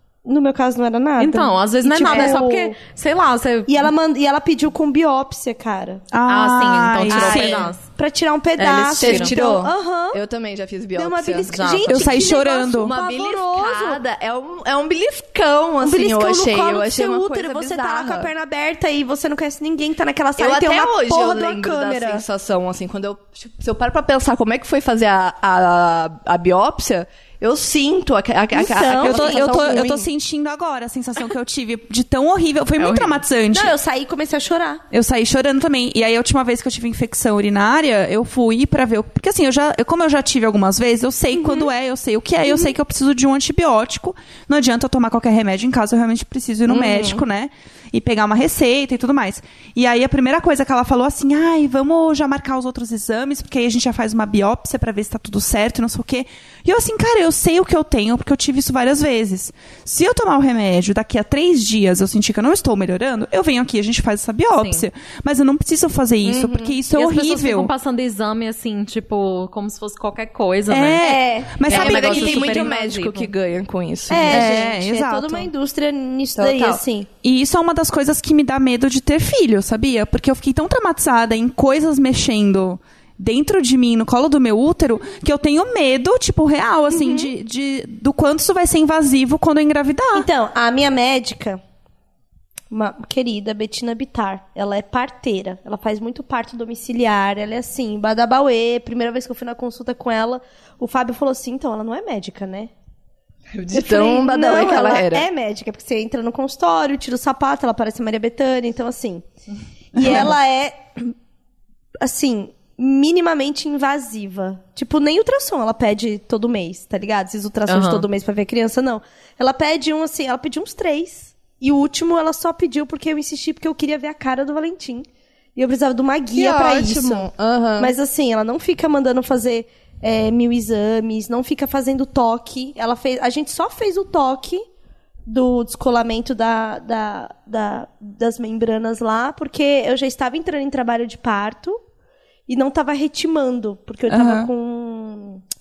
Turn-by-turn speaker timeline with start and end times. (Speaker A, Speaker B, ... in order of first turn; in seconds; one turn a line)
Speaker A: 0.2-2.8
Speaker B: 1.2-3.9
Speaker C: 2.1-2.4
Speaker A: 3.7-6.0
Speaker D: 6.1-7.7
Speaker B: 6.3-7.8
Speaker A: 7.1-10.2
Speaker C: 7.2-7.7
Speaker B: 8.6-9.4
Speaker C: 9.0-11.5
Speaker A: 10.9-14.0
Speaker B: 11.5-12.1
Speaker D: 11.9-12.9
Speaker C: 12.8-18.3
Speaker A: 15.8-22.2
Speaker C: 20.4-29.9
Speaker A: 28.5-30.1
Speaker D: 29.0-33.7
Speaker B: 32.8-33.2
Speaker A: 33.5-34.8
Speaker D: 34.9-67.7
Speaker C: 46.7-47.2
Speaker B: 64.5-64.8
Speaker C: 66.2-66.8
Speaker B: 66.9-73.3
Speaker D: 70.7-72.7
Speaker A: 71.0-71.7
Speaker C: 71.7-74.5
Speaker A: 74.1-77.1
Speaker D: 74.3-75.5
Speaker C: 76.4-76.8
Speaker D: 77.2-90.3
Speaker A: 86.9-87.3
Speaker A: 90.1-91.6
Speaker A: 92.7-102.7
Speaker C: 103.5-105.3
Speaker A: 103.7-109.3
Speaker A: 110.0-111.1
Speaker D: 110.0-110.3
Speaker A: 112.0-127.3
Speaker B: 117.7-118.1
Speaker C: 126.3-127.9
Speaker A: 127.8-134.6
Speaker A: 135.3-141.8
Speaker A: 142.5-145.4
Speaker D: 144.1-144.5